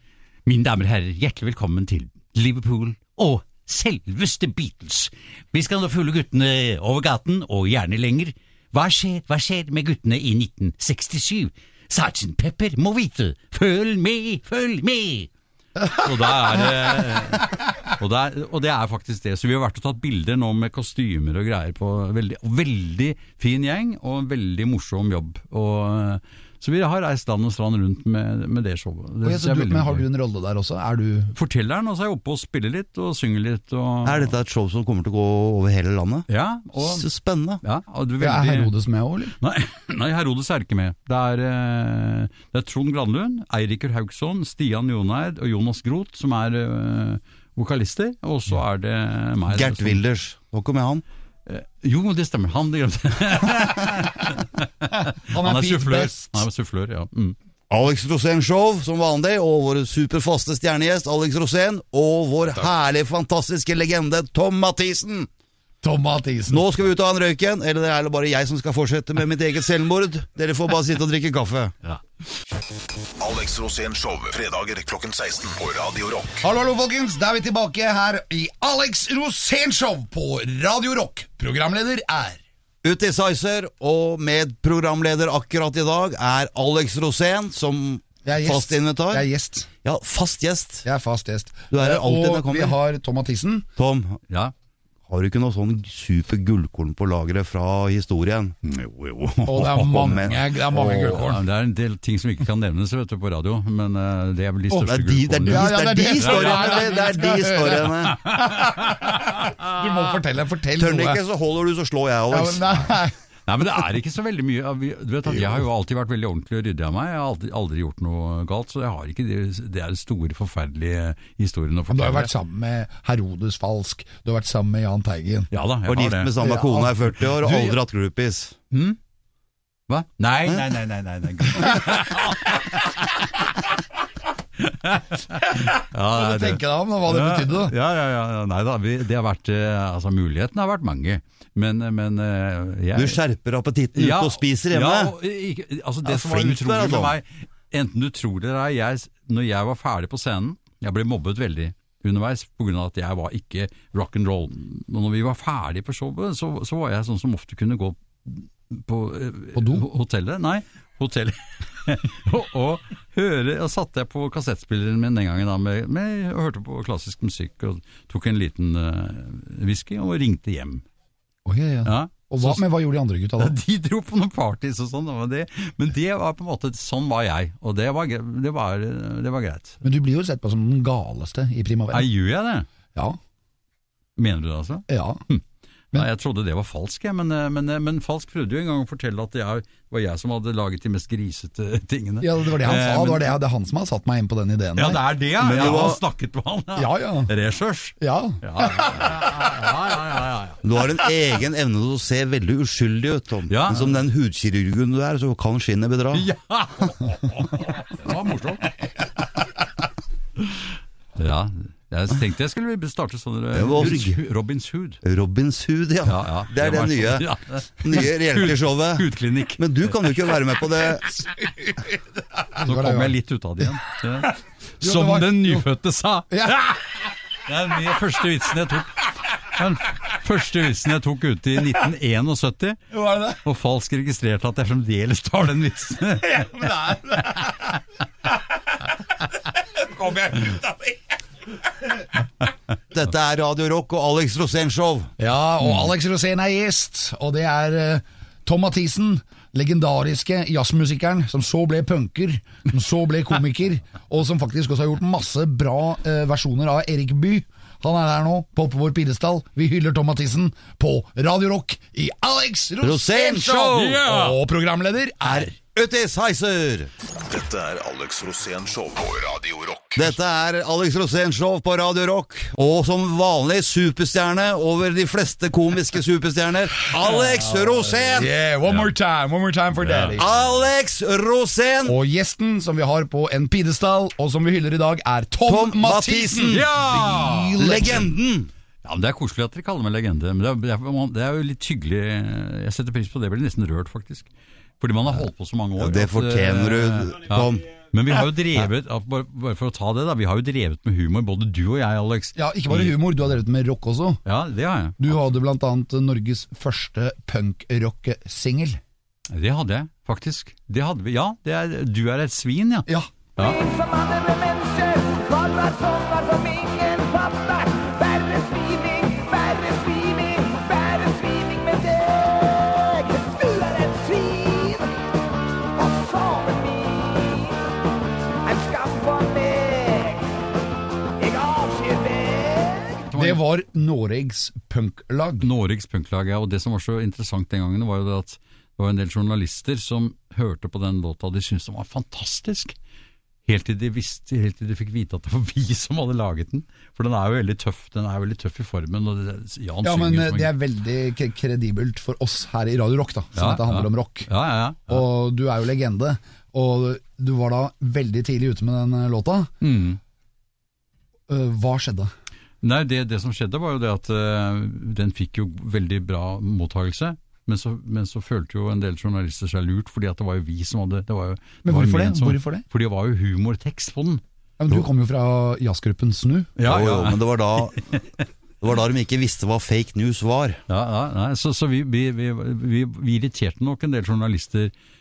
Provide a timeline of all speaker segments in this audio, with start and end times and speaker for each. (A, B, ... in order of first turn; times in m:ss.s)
0:00.4-0:15.3 A
0:15.9-0:30.0 A
0:29.2-0:31.3 B
0:31.3-0:34.3 A
0:34.0-0:36.3 C
0:36.3-0:37.0 A
0:36.8-0:37.6 C
0:37.6-0:38.7 A
0:38.2-0:39.3 B
0:39.4-0:50.0 A
0:49.5-0:51.0 C
0:51.4-0:57.4 A
0:54.9-0:56.4 B
0:57.7-1:05.3 C
1:05.8-1:06.6 B
1:06.5-1:11.7 C
1:13.2-1:16.4 D
1:16.4-1:22.4 B
1:22.8-1:29.3 C
1:28.2-1:29.7 B
1:29.8-1:30.8 C
1:30.8-1:33.7 B
1:31.7-1:32.8 C
1:33.8-1:34.2 C
1:35.1-1:38.6 C
1:38.6-1:47.0 A
1:39.4-1:41.4 B
1:39.9-1:40.3 C
1:44.8-1:48.2 C
1:45.4-1:51.2 B
1:48.2-1:49.8 A
1:50.8-1:52.9 C
1:52.3-1:53.1 B
1:53.5-2:02.3 A
2:01.9-2:05.5 B
2:05.5-2:06.3 A
2:05.9-2:08.6 C
2:06.4-2:07.0 B
2:07.3-2:07.7 A
2:08.7-2:09.0 A
2:09.9-2:13.5 A
2:14.6-2:23.2 A
2:15.5-2:17.7 B
2:22.9-2:25.1 C
2:23.9-2:50.8 A
2:26.0-2:27.2 C
2:39.6-2:39.8 B
2:51.4-2:53.6 B
2:51.8-2:52.7 A
2:53.4-2:59.8 A
2:59.8-3:02.1 B
3:01.9-3:02.7 A
3:04.2-3:13.4 A
3:04.9-3:05.2 B
3:12.2-3:15.0 B
3:14.8-3:20.6 A
3:15.4-3:16.0 C
3:16.8-3:17.3 B
3:18.0-3:19.5 B
3:20.6-3:26.3 C
3:23.5-3:24.0 A
3:26.1-3:28.7 A
3:30.4-3:35.0 A
3:33.5-3:34.2 C
3:35.0-3:37.3 C
3:36.0-3:40.4 A
3:37.8-3:41.1 C
3:41.2-3:42.0 B
3:42.5-3:43.2 B
3:42.6-3:46.8 A
3:44.8-3:45.6 B
3:46.3-3:46.7 B
3:47.4-3:56.6 A
3:52.9-3:53.4 B
3:56.2-3:57.7 B
3:59.8-4:00.9 B
4:02.9-4:05.1 C
4:05.2-4:25.5 B
4:22.8-4:24.0 C
4:23.5-4:24.4 A
4:25.2-4:26.9 C
4:27.2-4:30.1 D
4:30.0-4:38.3 C
4:36.9-4:40.4 B
4:39.8-4:40.2 A
4:40.2-4:42.0 C
4:41.8-4:48.1 B
4:45.4-4:46.7 C
4:46.5-4:47.6 A
4:47.5-4:48.5 C
4:48.8-4:54.3 A
4:54.8-5:03.1 A
4:55.8-4:57.6 C
5:02.4-5:04.2 B
5:04.2-5:05.1 A
5:05.0-5:08.8 B
5:09.3-5:13.7 A
5:13.6-5:25.0 E
5:25.7-5:27.6 E
5:28.4-5:30.3 E
5:31.2-5:33.0 E
5:33.1-5:33.4 A
5:33.1-5:35.4 B
5:35.4-5:42.7 A
5:43.4-5:50.5 A
5:49.8-5:54.3 B
5:53.4-5:55.0 A
5:54.9-5:59.5 B
5:59.6-6:00.0 A
6:01.3-6:02.1 B
6:02.6-6:14.2 A
6:11.6-6:12.6 B
6:14.6-6:16.5 B
6:16.6-6:17.8 A
6:16.6-6:17.9 C
6:18.6-6:20.6 C
6:20.7-6:24.7 A